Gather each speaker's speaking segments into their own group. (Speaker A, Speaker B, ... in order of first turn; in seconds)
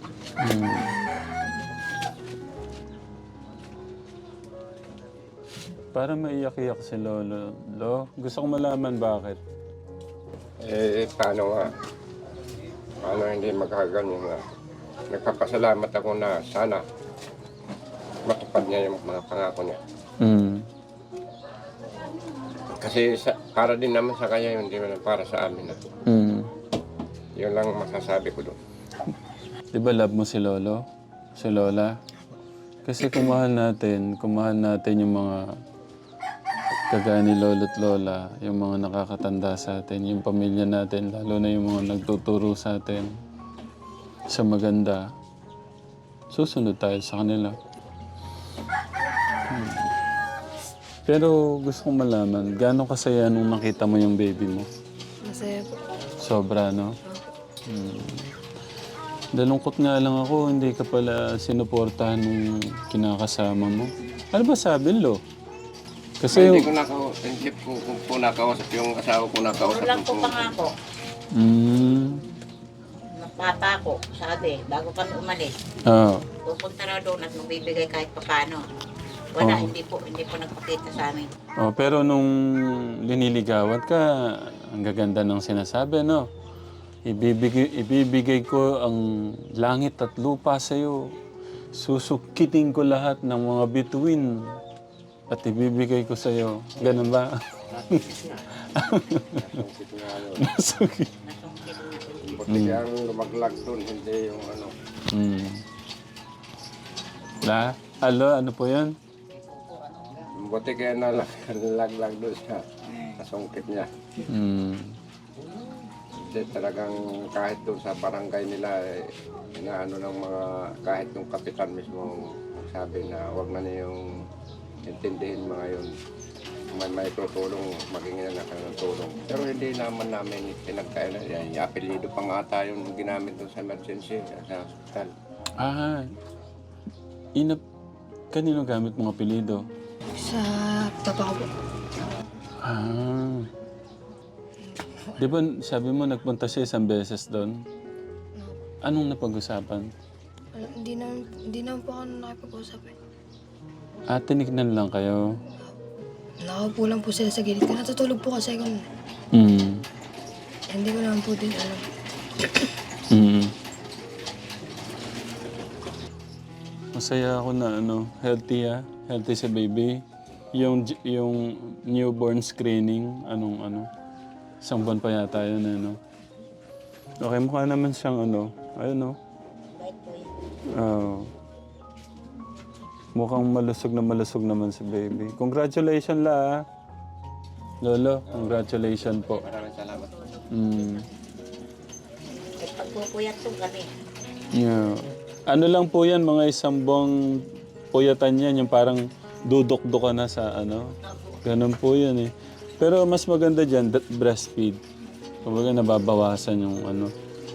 Speaker A: 0.4-0.9, 5.9-9.4, 20.2-20.6, 26.1-26.5, 29.7-30.8, 31.4-31.9, 32.8-35.4, 36.9-43.1, 44.3-45.0, 46.3-47.5, 49.5-49.9, 51.0-54.6, 56.2-56.9, 57.7-58.3, 59.3-65.2, 66.2-66.7, 71.3-72.2, 75.8-76.2, 79.4-79.7, 81.6-86.2, 87.1-91.1, 91.7-94.6, 95.3-99.5, 100.3-101.1, 102.5-102.8, 105.1-105.6, 107.4-108.9, 114.3-115.0, 135.6-136.1, 137.3-137.6, 138.3-139.6, 142.6-143.5, 145.2-147.6, 148.8-149.9, 154.1-155.2, 159.3-159.8, 163.1-163.5, 166.9-170.0, 170.5-173.9, 174.6-176.0, 177.2-179.2, 180.7-181.3, 183.1-186.6, 187.8-189.4, 190.5-191.0, 194.5-197.1, 197.9-200.8, 201.4-204.8, 205.4-207.1
Speaker B: 10.6-11.7, 13.0-14.4, 15.1-16.8, 18.2-19.8, 22.8-25.8, 27.4-28.6, 66.3-70.5, 99.3-100.5, 102.2-104.7, 110.3-112.6, 113.2-113.9, 116.3-124.2, 124.8-125.9, 126.7-135.1, 188.3-190.1
Speaker C: 55.2-55.8, 140.2-141.5, 144.7-145.4, 150.5-152.9, 156.4-158.8, 160.7-161.8
Speaker D: 69.6-70.7, 73.2-75.6, 76.4-78.6, 79.3-81.3, 101.2-102.6, 179.7-180.3, 189.2-191.1, 192.6-193.9, 201.0-201.4